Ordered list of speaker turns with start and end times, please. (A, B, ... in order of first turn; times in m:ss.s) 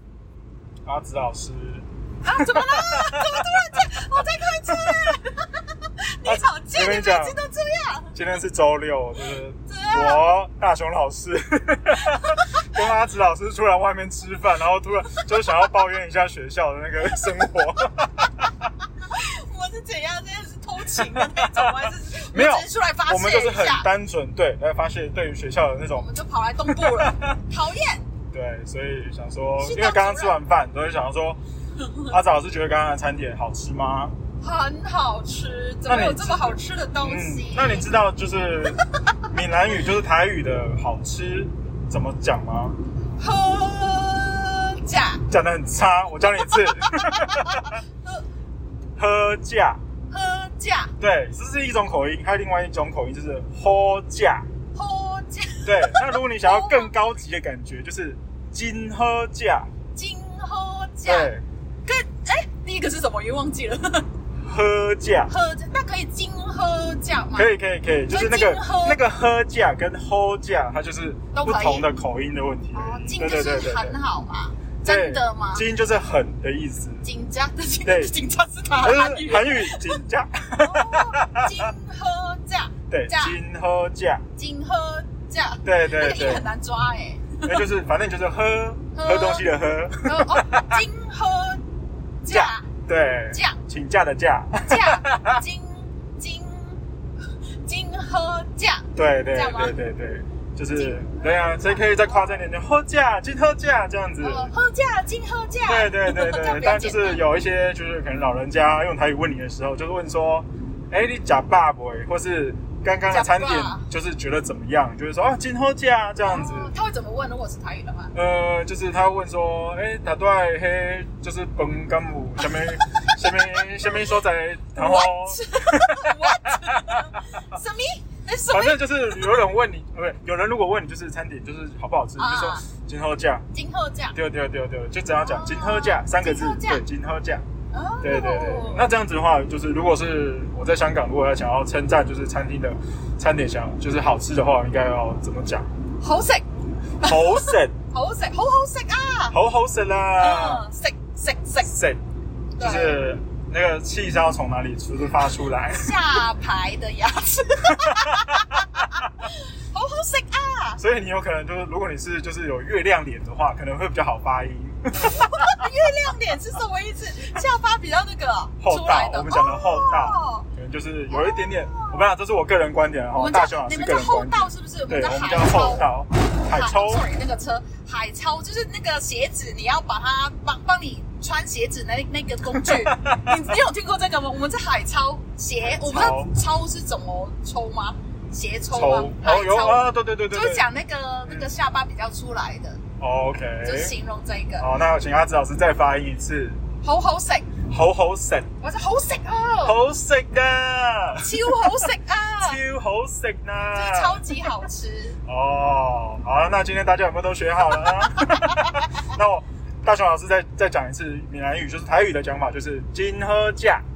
0:00.8-0:03.4 A
0:02.2-0:08.1 B
0:06.2-0:07.4 A
0:08.1-0:18.5 A
0:09.7-0:10.3 B
0:12.0-0:12.6 B
0:19.0-0:23.9 B
0:20.8-0:26.1 A
0:25.9-0:28.1 B
0:26.6-0:27.4 A
0:28.3-0:31.4 A
0:29.6-0:30.4 B
0:32.1-0:34.1 A
0:34.4-0:37.9 B
0:35.9-0:42.8 A
0:43.2-0:45.2 B
0:45.3-0:47.8 A
0:46.4-0:48.2 B
0:49.0-0:49.8 A
0:50.1-0:50.9 B
0:51.0-0:54.5 A
0:54.7-0:56.9 B
0:55.6-0:59.7 A
0:59.9-1:01.3 B
1:01.0-1:01.4 A
1:01.8-1:04.1 B
1:04.4-1:05.3 A
1:05.3-1:07.5 B
1:07.3-1:14.0 A
1:08.1-1:09.0 B
1:11.3-1:11.9 B
1:12.7-1:15.6 B
1:14.8-1:17.1 A
1:17.0-1:20.0 B
1:17.8-1:18.1 A
1:18.8-1:21.7 A
1:20.6-1:23.4 B
1:22.9-1:24.2 A
1:24.4-1:27.6 B
1:25.6-1:26.5 A
1:27.4-1:30.8 A
1:28.9-1:29.5 B
1:30.0-1:31.6 B
1:32.2-1:32.7 B
1:32.3-1:35.4 A
1:33.3-1:33.6 B
1:34.6-1:36.8 B
1:37.6-1:39.8 B
1:38.9-1:44.5 A
1:40.7-1:42.5 B
1:44.2-1:47.2 B
1:45.6-1:56.7 A
1:53.1-1:53.8 B
1:56.2-1:58.1 B
1:58.1-2:07.0 A
2:03.2-2:04.1 B
2:04.8-2:09.3 B
2:08.5-2:13.4 A
2:12.2-2:12.6 B
2:13.5-2:14.2 B
2:14.1-2:17.4 A
2:15.2-2:16.8 B
2:17.7-2:18.9 B
2:18.0-2:25.7 A
2:26.0-2:26.4 B
2:27.0-2:27.7 A
2:27.0-2:29.4 B
2:29.3-2:30.6 A
2:30.2-2:31.7 B
2:31.6-2:32.0 A
2:32.6-2:33.0 B
2:32.6-2:36.2 A
2:35.6-2:40.8 B
2:37.7-2:38.6 A
2:40.8-2:45.5 A
2:45.1-2:50.5 B
2:48.6-2:57.1 A
2:51.1-2:52.0 B
2:53.1-2:55.9 B
2:56.4-3:12.8 B
3:02.6-3:03.3 A
3:05.6-3:06.3 A
3:08.7-3:10.6 A
3:11.2-3:11.5 A
3:13.0-3:13.9 A
3:13.6-3:14.7 B
3:14.6-3:16.6 A
3:16.8-3:17.5 B
3:17.6-3:18.5 A
3:18.6-3:19.8 B
3:19.6-3:21.7 A
3:21.2-3:22.6 B
3:22.4-3:24.5 A
3:23.7-3:25.2 B
3:25.2-3:33.8 A
3:27.8-3:28.6 B